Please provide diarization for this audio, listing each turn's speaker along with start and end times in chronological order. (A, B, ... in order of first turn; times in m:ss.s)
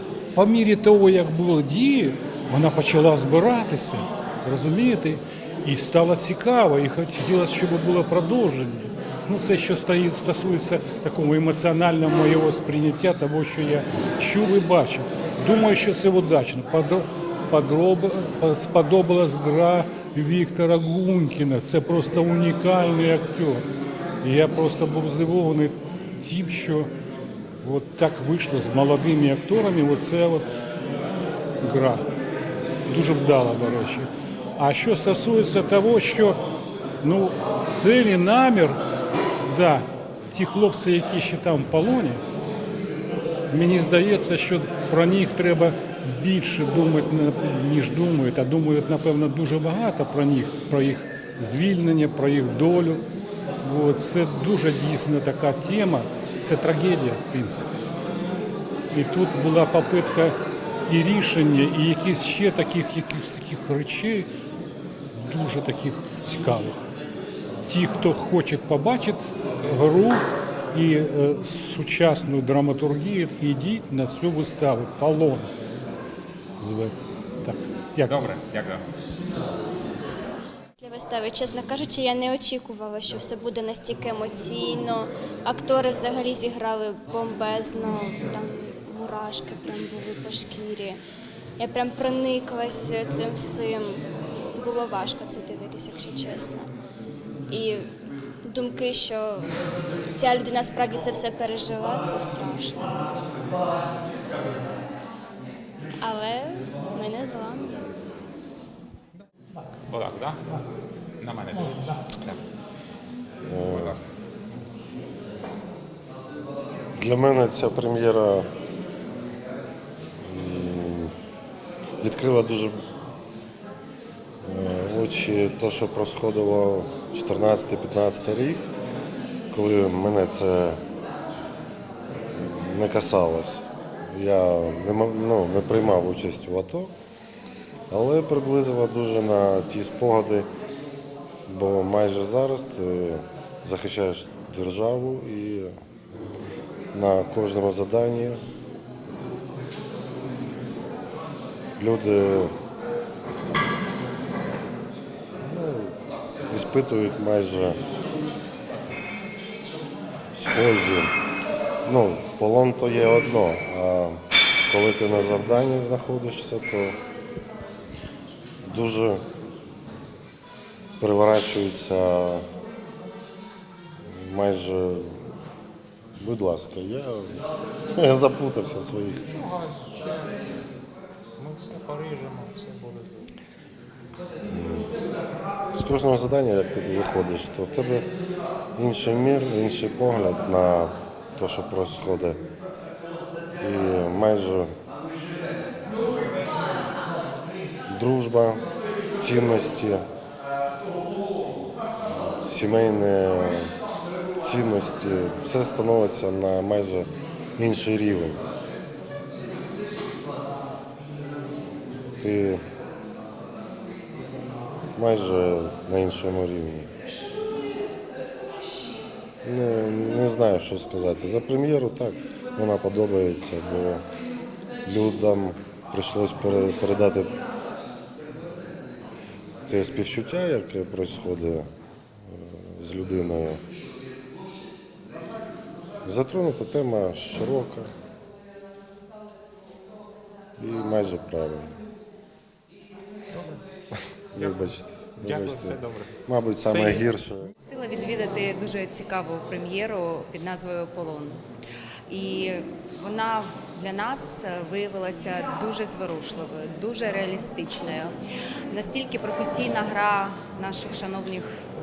0:00.3-0:23.6 A
0:24.2-0:26.9 A
0:27.6-0:30.6 A
0:31.6-0:32.0 A
0:32.9-0:36.4 A
0:37.0-0:38.8 A
0:39.5-0:42.2 A
0:43.5-0:53.0 A
0:53.6-0:57.7 A
0:58.9-1:00.4 A
1:00.9-1:04.3 A
1:05.2-1:06.8 A
1:07.6-1:15.5 A
1:16.6-1:18.2 A
1:18.0-1:18.8 B
1:20.8-1:31.0 C
1:31.6-1:34.0 C
1:34.6-1:36.7 C
1:37.5-1:37.8 C
1:38.4-1:39.5 C
1:40.1-1:42.9 C
1:46.0-1:47.8 C
1:49.9-1:50.6 B
1:51.2-1:52.4 B
1:53.5-1:54.0 D
1:53.6-1:54.0 B
1:57.0-1:58.5 D
2:00.2-2:01.1 D
2:02.0-2:02.8 D
2:04.4-2:08.6 D
2:09.5-2:10.8 D
2:12.3-2:16.9 D
2:17.9-2:20.5 D
2:21.5-2:25.7 D
2:26.9-2:28.4 D
2:31.8-2:32.5 D
2:35.4-2:35.9 D
2:36.5-2:37.9 D
2:40.3-2:41.1 D
2:41.8-2:47.0 D
2:48.6-2:49.2 D
2:51.0-2:52.4 D
2:54.0-2:55.2 D
2:56.2-2:57.4 D
2:58.0-2:59.3 D
2:59.2-3:00.4 B
3:01.4-3:03.3 B
3:04.5-3:04.9 D
3:05.7-3:08.1 D
3:08.8-3:12.4 D
3:13.6-3:14.7 D
3:17.9-3:18.6 D
3:19.2-3:20.0 D
3:22.0-3:23.7 D
3:24.4-3:28.4 D
3:32.2-3:32.6 D
3:35.0-3:36.9 D
3:39.4-3:44.0 D
3:44.8-3:47.4 D
3:49.6-3:51.7 D
3:52.2-3:53.6 D
3:56.0-3:57.9 D
4:00.6-4:01.8 D
4:03.3-4:03.6 B
4:04.3-4:07.5 D
4:05.2-4:07.1 B
4:07.6-4:11.4 E
4:12.1-4:18.1 E
4:18.7-4:21.5 E